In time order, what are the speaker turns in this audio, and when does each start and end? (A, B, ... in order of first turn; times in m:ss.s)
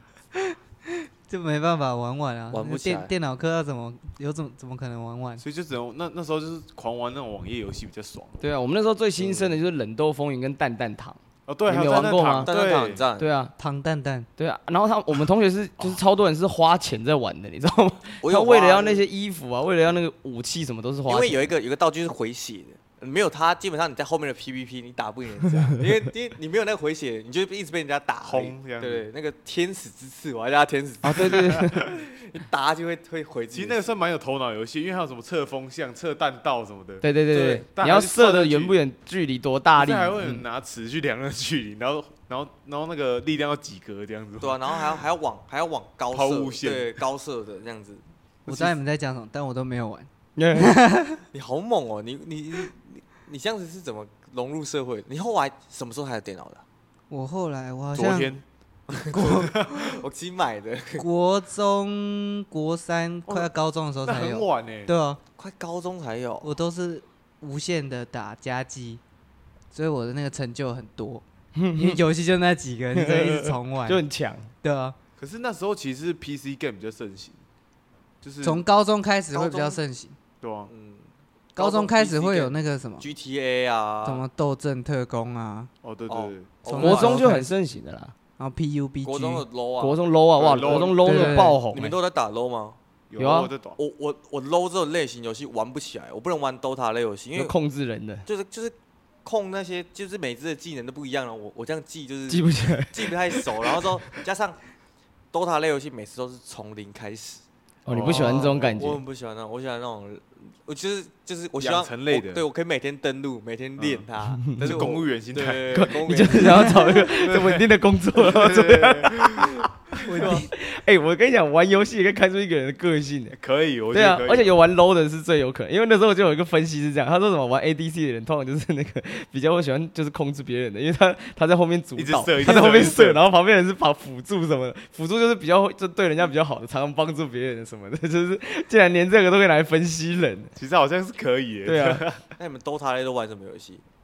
0:01.3-0:05.4 A
0:02.5-0:03.1 B
0:05.4-0:08.4 C
0:08.4-0:12.5 D
0:09.2-0:09.5 B
0:11.5-0:13.0 C
0:12.5-0:13.3 B
0:13.2-0:13.5 D
0:13.6-0:14.3 A
0:14.4-0:21.5 D
0:18.2-0:19.0 B
0:21.1-0:33.8 B
0:28.2-0:29.1 C
0:31.0-0:31.9 D
0:31.3-0:31.9 C
0:33.5-0:38.8 C
0:37.0-0:40.4 D
0:37.4-0:37.6 B
0:39.8-0:45.0 C
0:44.4-0:48.0 B
0:46.1-0:47.0 C
0:48.5-0:51.2 A
0:50.4-0:50.7 D
0:51.3-0:56.6 B
0:57.1-0:58.4 A
0:58.0-0:58.4 C
0:58.9-1:01.1 B
0:59.0-1:00.0 C
0:59.1-0:59.6 A
1:01.0-1:05.2 A
1:04.0-1:04.9 C
1:05.4-1:06.5 B
1:06.4-1:09.0 A
1:09.7-1:11.2 A
1:11.6-1:12.0 D
1:11.8-1:14.0 A
1:13.0-1:14.5 D
1:14.6-1:15.0 A
1:15.2-1:17.4 C
1:18.2-1:18.6 C
1:18.4-1:20.2 A
1:19.3-1:19.8 B
1:20.4-1:20.7 C
1:20.7-1:24.3 B
1:21.6-1:23.1 A
1:24.0-1:25.7 A
1:25.8-1:26.5 C
1:26.1-1:27.3 B
1:26.7-1:27.5 A
1:26.8-1:28.1 D
1:28.4-1:29.4 A
1:29.0-1:32.8 B
1:29.8-1:32.0 D
1:30.4-1:31.1 C
1:31.0-1:31.6 A
1:33.1-1:33.8 C
1:33.2-1:33.5 D
1:33.8-1:37.6 B
1:37.4-1:38.2 D
1:38.2-1:44.6 B
1:42.3-1:43.8 D
1:45.3-1:47.4 B
1:47.9-1:49.0 D
1:47.9-1:48.8 C
1:48.0-1:56.9 B
1:51.6-1:52.4 C
1:53.8-1:56.3 C
1:54.6-1:54.8 D
1:55.7-1:59.7 D
1:57.0-1:59.7 C
2:00.0-2:00.5 A
2:00.2-2:00.4 B
2:00.2-2:03.4 D
2:03.3-2:04.6 C
2:03.9-2:20.5 D
2:12.0-2:13.2 C
2:20.6-2:22.2 C
2:21.7-2:22.0 D
2:22.4-2:23.8 B